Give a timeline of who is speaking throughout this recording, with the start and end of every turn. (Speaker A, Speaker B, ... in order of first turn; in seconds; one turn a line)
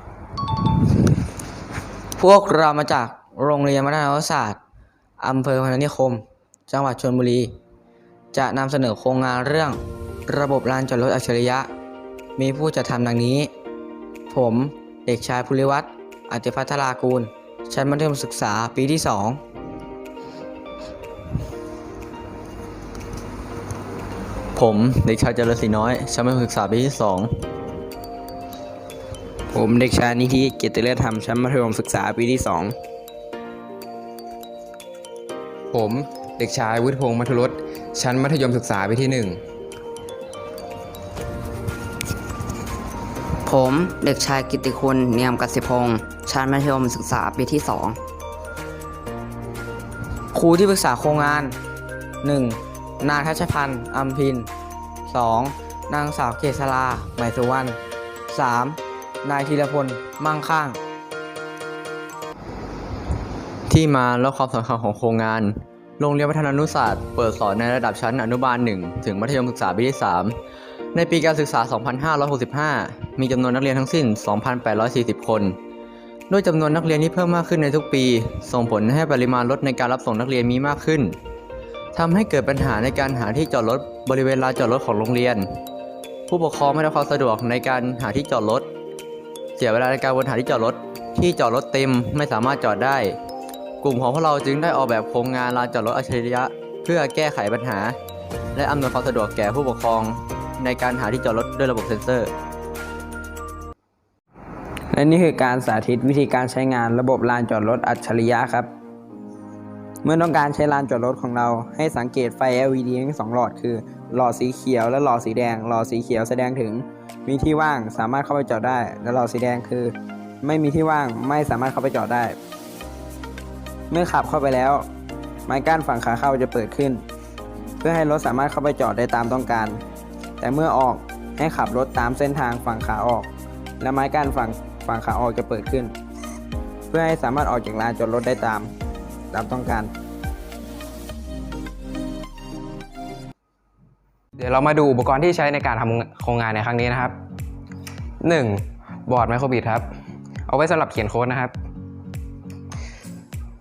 Speaker A: 2.1-4.6
Speaker A: 5.2-7.6
Speaker A: 8.3-11.7
Speaker A: 12.4-13.5
Speaker A: 14.3-19.4
Speaker B: 24.5-27.4
Speaker C: 29.5-32.7
Speaker D: 35.7-39.4
Speaker E: 43.4-48.0
Speaker A: 50.3-51.6
Speaker A: 52.2-54.5
Speaker A: 55.0-60.8
Speaker B: 63.7-70.4
Speaker B: 70.9-75.6
Speaker B: 76.3-81.2
Speaker B: 81.9-85.6
Speaker B: 86.3-88.7
Speaker B: 89.6-93.2
Speaker B: 93.8-98.0
Speaker B: 98.5-102.3
Speaker C: 104.9-108.7
Speaker C: 110.0-122.4
Speaker C: 123.9-124.8
Speaker C: 125.5-127.0
Speaker C: 127.8-129.8
Speaker C: 130.4-133.3
Speaker C: 133.8-135.9
Speaker C: 136.9-138.7
Speaker C: 139.3-139.9
Speaker D: 144.4-147.1
Speaker D: 148.2-149.8
Speaker D: 150.5-151.5